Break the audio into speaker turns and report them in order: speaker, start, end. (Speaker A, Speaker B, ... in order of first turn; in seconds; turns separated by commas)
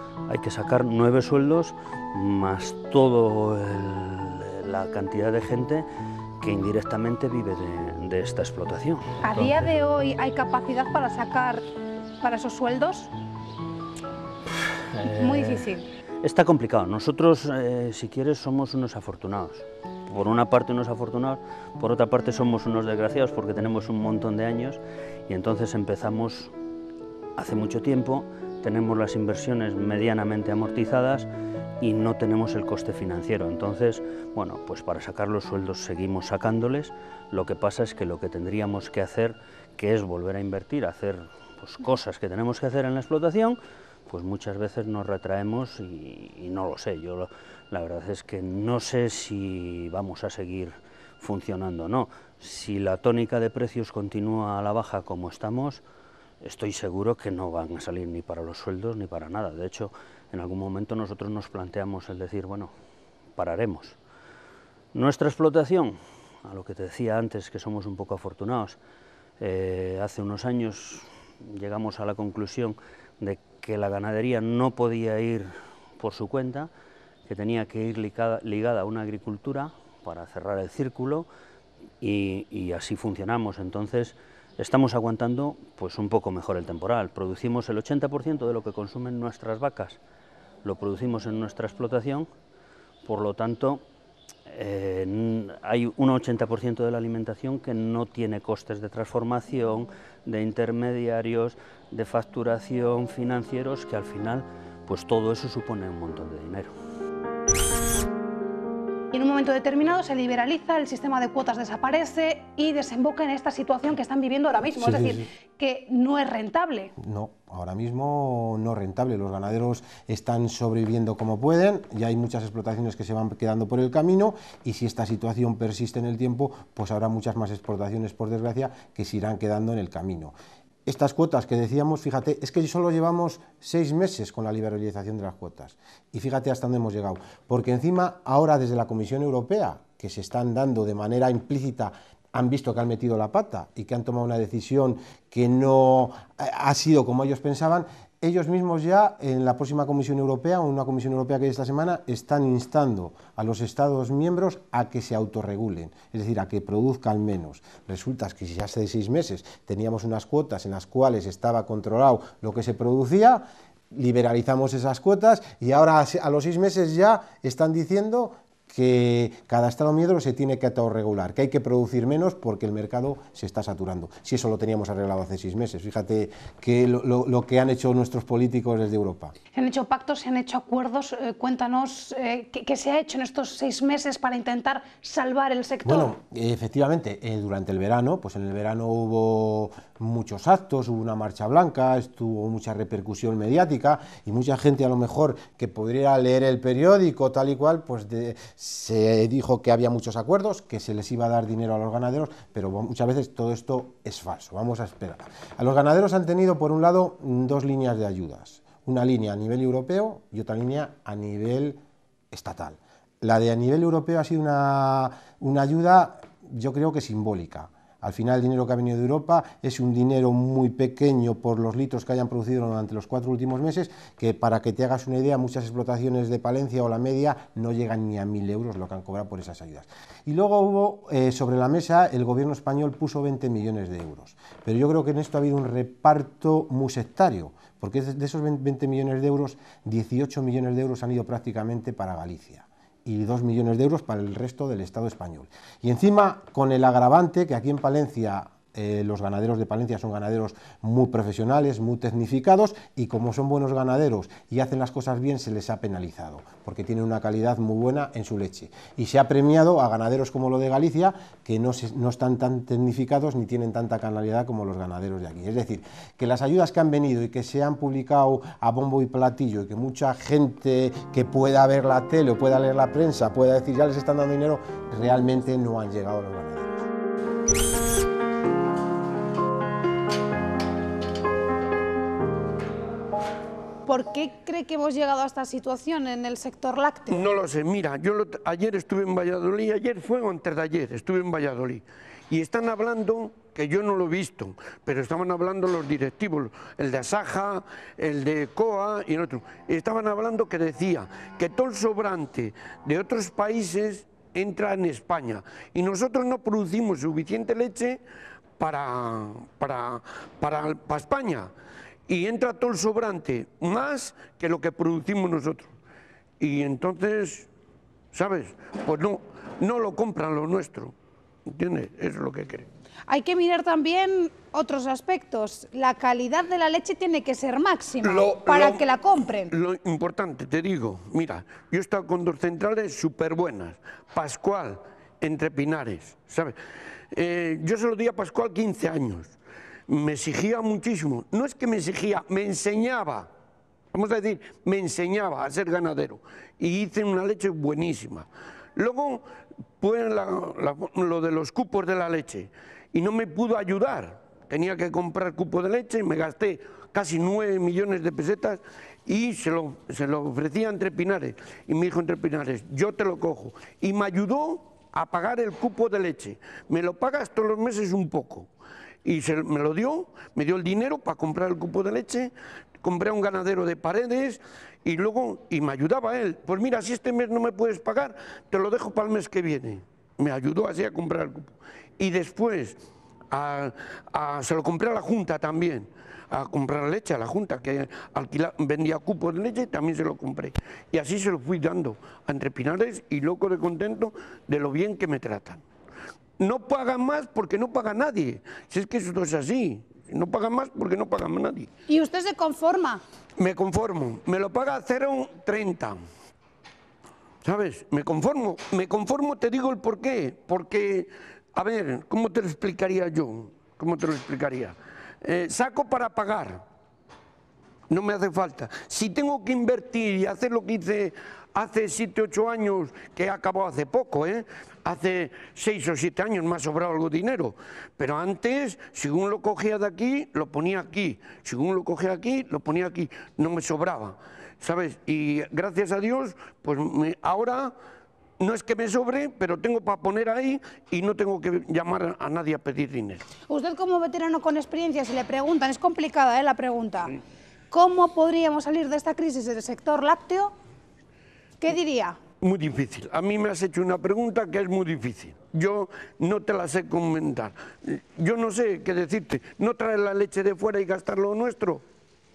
Speaker A: 0.3-5.9, Speaker A: 6.4-9.7, Speaker B: 9.2-11.6, Speaker B: 12.2-13.1, Speaker A: 14.9-15.6, Speaker B: 15.0-15.8, Speaker A: 16.2-26.5, Speaker A: 27.4-31.3, Speaker A: 31.8-55.8, Speaker A: 56.4-62.7, Speaker A: 63.4-64.0, Speaker A: 64.9-68.8, Speaker A: 69.4-76.7, Speaker A: 77.3-81.3, Speaker A: 82.0-90.0, Speaker A: 90.6-92.3, Speaker A: 93.0-93.8, Speaker A: 94.5-106.7, Speaker B: 109.1-116.9, Speaker C: 114.8-115.2, Speaker C: 117.0-130.3, Speaker C: 130.8-179.3, Speaker B: 179.5-186.1, Speaker C: 185.8-276.9, Speaker B: 283.9-287.2, Speaker D: 287.1-308.0, Speaker D: 308.6-311.5, Speaker D: 312.1-315.7, Speaker D: 316.4-317.5, Speaker D: 318.1-320.9, Speaker D: 321.5-322.7, Speaker B: 323.1-329.5, Speaker D: 328.0-328.8, Speaker D: 329.5-336.6, Speaker D: 337.1-339.3, Speaker D: 339.9-343.3, Speaker D: 343.9-349.2, Speaker D: 349.8-368.5, Speaker D: 369.0-382.8, Speaker D: 383.3-395.6, Speaker D: 396.4-401.7, Speaker B: 401.9-403.0, Speaker D: 403.4-406.0, Speaker D: 407.4-416.6, Speaker D: 417.9-437.7, Speaker D: 438.4-443.2, Speaker B: 443.5-447.2, Speaker B: 447.7-450.5, Speaker B: 451.6-452.2, Speaker D: 452.4-461.8